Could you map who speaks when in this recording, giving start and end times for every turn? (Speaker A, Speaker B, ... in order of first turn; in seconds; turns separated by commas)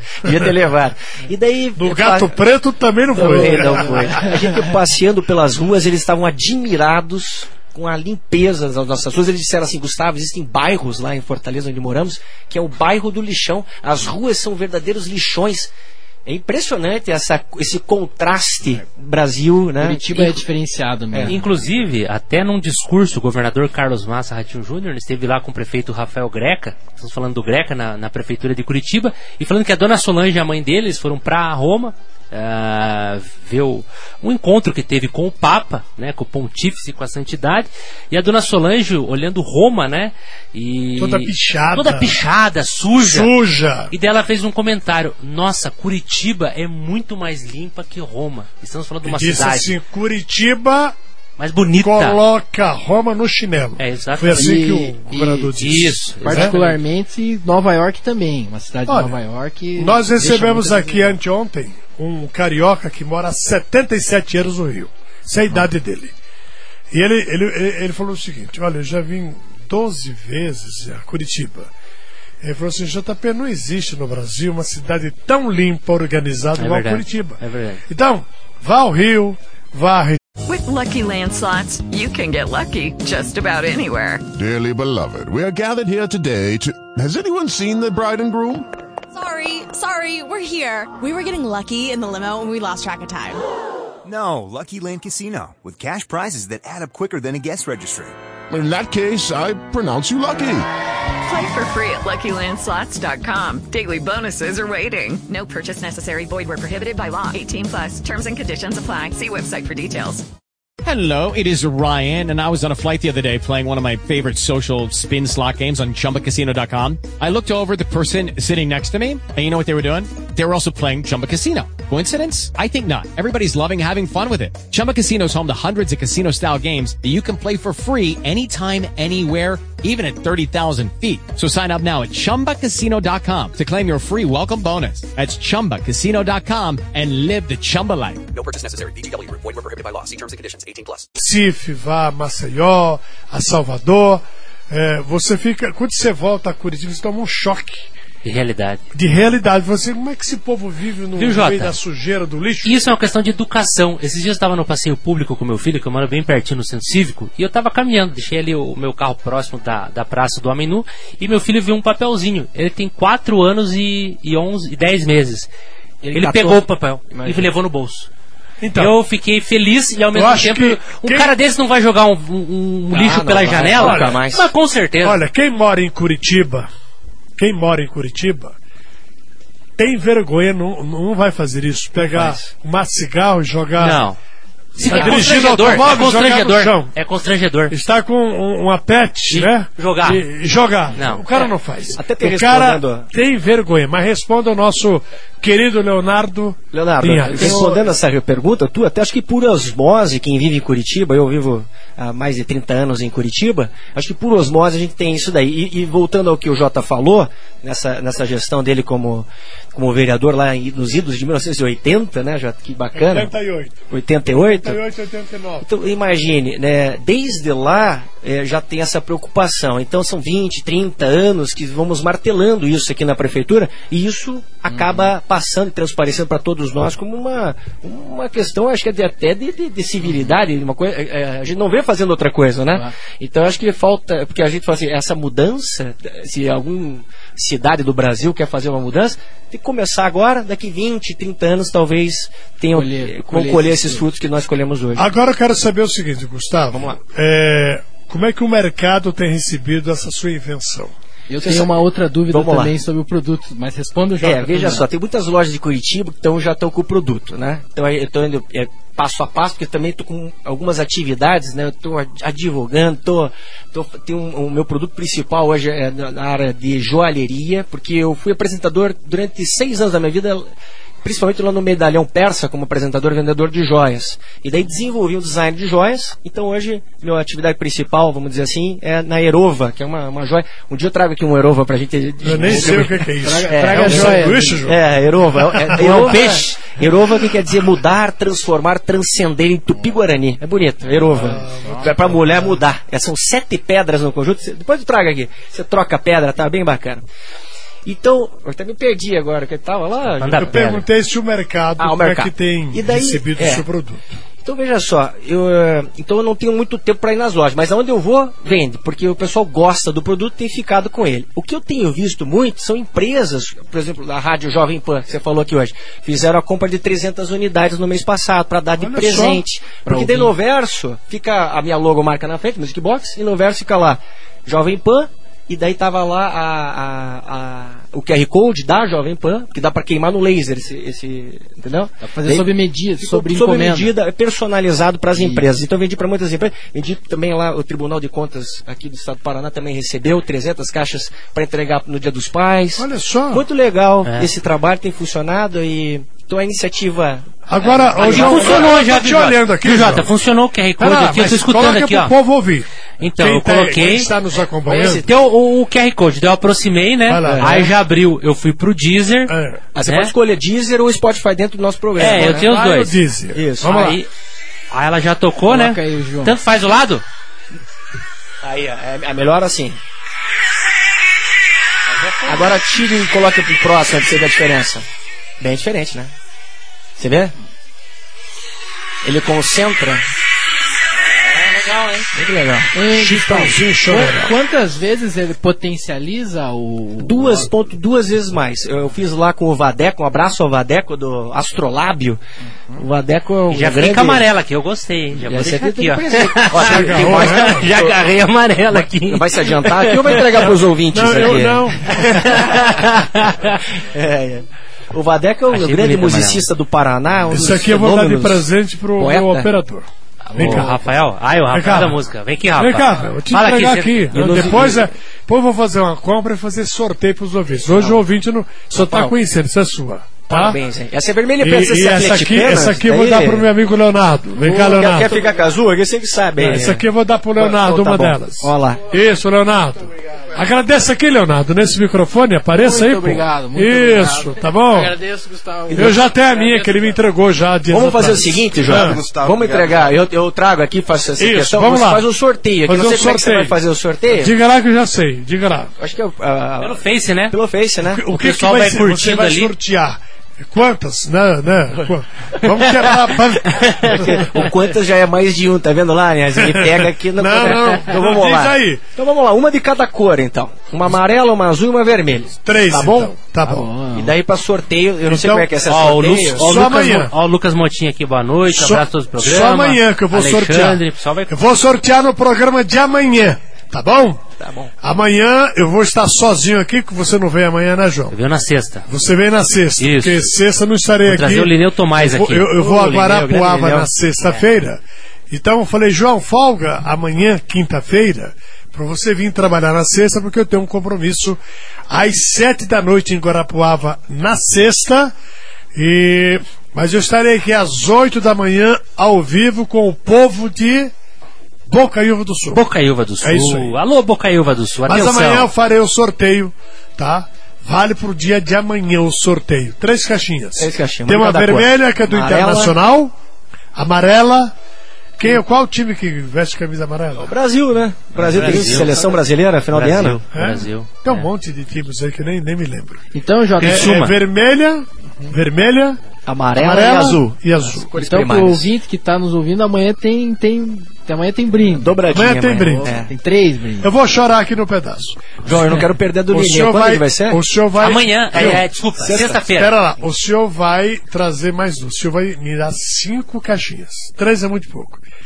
Speaker A: 0.2-2.3, Speaker B: 1.8-4.3, Speaker A: 3.1-15.7, Speaker C: 3.2-4.5, Speaker A: 16.2-20.4, Speaker C: 19.8-21.6, Speaker A: 21.1-21.4, Speaker D: 21.2-43.4, Speaker B: 41.0-42.2, Speaker B: 43.0-43.9, Speaker D: 43.9-49.8, Speaker B: 49.0-51.0, Speaker D: 51.4-52.2, Speaker B: 51.8-56.6, Speaker D: 53.8-54.6, Speaker C: 54.3-55.5, Speaker D: 55.5-56.7, Speaker C: 56.2-61.1, Speaker B: 58.9-59.2, Speaker B: 59.8-66.1, Speaker B: 66.9-71.7, Speaker B: 72.4-80.2, Speaker D: 76.6-77.8, Speaker E: 80.4-84.2, Speaker F: 84.3-88.7, Speaker G: 89.1-93.4, Speaker H: 94.0-98.1, Speaker F: 98.5-100.7, Speaker E: 101.2-110.2, Speaker I: 110.8-138.2, Speaker J: 138.3-141.1, Speaker B: 141.2-147.9, Speaker D: 148.2-148.8, Speaker B: 148.9-152.9, Speaker D: 151.2-151.8, Speaker D: 152.6-165.5, Speaker D: 166.1-168.1, Speaker A: 166.1-166.6, Speaker C: 167.1-167.5, Speaker B: 168.6-168.9, Speaker D: 168.8-175.2, Speaker B: 170.1-171.3, Speaker A: 172.9-174.4, Speaker B: 173.6-174.2, Speaker B: 175.0-176.7, Speaker B: 177.4-178.6, Speaker B: 179.8-184.0, Speaker A: 181.9-182.5, Speaker D: 183.8-184.2, Speaker D: 184.8-187.8, Speaker B: 184.8-187.0, Speaker B: 187.7-197.8, Speaker D: 189.3-190.2, Speaker D: 190.9-191.2, Speaker A: 192.0-193.1, Speaker A: 196.7-213.3, Speaker C: 197.4-197.7, Speaker B: 212.9-215.7, Speaker A: 213.9-214.8, Speaker A: 215.6-245.1, Speaker C: 224.7-225.1, Speaker C: 230.0-230.3, Speaker C: 242.7-244.1, Speaker B: 244.9-250.9, Speaker A: 246.7-247.0, Speaker C: 251.3-254.8, Speaker A: 251.4-251.7, Speaker A: 252.3-252.8, Speaker A: 254.2-270.5, Speaker A: 271.0-297.0, Speaker B: 282.2-286.1, Speaker C: 282.4-284.6, Speaker D: 285.7-286.8, Speaker C: 286.1-286.4, Speaker C: 290.9-291.9, Speaker B: 291.1-292.5, Speaker A: 297.8-300.8, Speaker D: 300.2-300.8, Speaker B: 300.4-304.2, Speaker A: 301.8-303.6, Speaker A: 304.4-348.7, Speaker B: 318.8-319.4, Speaker C: 319.9-320.3, Speaker C: 332.0-333.9, Speaker C: 335.1-335.5, Speaker B: 342.8-343.4, Speaker D: 344.0-344.3, Speaker B: 347.5-350.1, Speaker D: 347.6-352.1, Speaker B: 350.8-355.1, Speaker D: 353.0-354.1, Speaker D: 354.6-360.1, Speaker B: 357.0-357.7, Speaker B: 359.3-359.6, Speaker A: 359.8-362.5, Speaker D: 362.0-362.9, Speaker B: 362.0-363.5, Speaker A: 363.3-364.0, Speaker D: 363.6-364.1, Speaker D: 364.7-367.0, Speaker C: 365.5-366.4, Speaker A: 368.4-369.8, Speaker A: 372.2-374.9, Speaker A: 375.4-376.1, Speaker A: 377.0-377.3, Speaker A: 379.0-380.0, Speaker A: 382.1-382.7, Speaker C: 382.7-387.5, Speaker B: 382.9-384.4, Speaker A: 387.0-392.2, Speaker A: 392.8-394.2, Speaker D: 393.5-401.4, Speaker A: 395.2-398.1, Speaker B: 396.5-397.6, Speaker A: 398.7-402.8, Speaker B: 400.9-402.2, Speaker D: 401.9-403.6, Speaker A: 403.8-408.4, Speaker D: 405.5-406.5, Speaker B: 407.3-411.0, Speaker A: 409.0-409.5, Speaker D: 410.3-414.7, Speaker B: 411.5-412.0, Speaker B: 412.5-420.6, Speaker A: 414.1-414.9, Speaker A: 417.7-418.0, Speaker A: 418.7-419.1, Speaker A: 420.3-423.5, Speaker B: 421.4-425.1, Speaker A: 424.4-426.8, Speaker C: 424.5-425.3, Speaker B: 426.4-434.9, Speaker A: 427.4-428.8, Speaker C: 432.5-436.9, Speaker A: 435.7-436.0, Speaker B: 435.8-439.0, Speaker A: 437.7-444.3, Speaker F: 438.5-439.9, Speaker B: 441.2-442.1, Speaker B: 442.6-443.6, Speaker B: 444.1-445.7, Speaker A: 445.8-448.0, Speaker D: 446.6-447.4, Speaker B: 447.8-454.2, Speaker D: 448.1-449.5, Speaker A: 453.7-463.1, Speaker B: 456.4-458.9, Speaker B: 462.4-463.7, Speaker C: 463.4-464.1, Speaker A: 463.9-466.7, Speaker B: 465.0-465.5, Speaker D: 465.7-471.4, Speaker B: 466.4-467.1, Speaker B: 468.5-474.2, Speaker A: 474.4-474.7, Speaker B: 474.8-478.1, Speaker D: 478.1-478.9, Speaker B: 478.9-495.1, Speaker D: 479.8-480.3, Speaker D: 481.1-482.5, Speaker A: 482.5-484.4, Speaker B: 495.7-500.9, Speaker B: 501.7-502.6, Speaker D: 502.5-505.5, Speaker B: 503.2-503.8, Speaker B: 504.8-513.1, Speaker A: 510.6-512.8, Speaker B: 513.7-514.5, Speaker B: 515.2-517.3, Speaker A: 517.2-520.2, Speaker D: 518.1-519.1, Speaker C: 518.5-519.2, Speaker D: 519.7-521.2, Speaker B: 520.3-523.0, Speaker C: 523.1-523.9, Speaker D: 523.6-524.2, Speaker B: 523.6-526.0, Speaker A: 526.2-528.7, Speaker B: 526.5-527.9, Speaker C: 528.0-533.9, Speaker A: 531.7-533.1, Speaker B: 532.1-532.9, Speaker B: 533.8-535.5, Speaker A: 535.4-537.4, Speaker B: 536.3-538.7, Speaker D: 537.8-539.8, Speaker A: 538.3-539.4, Speaker B: 539.5-545.0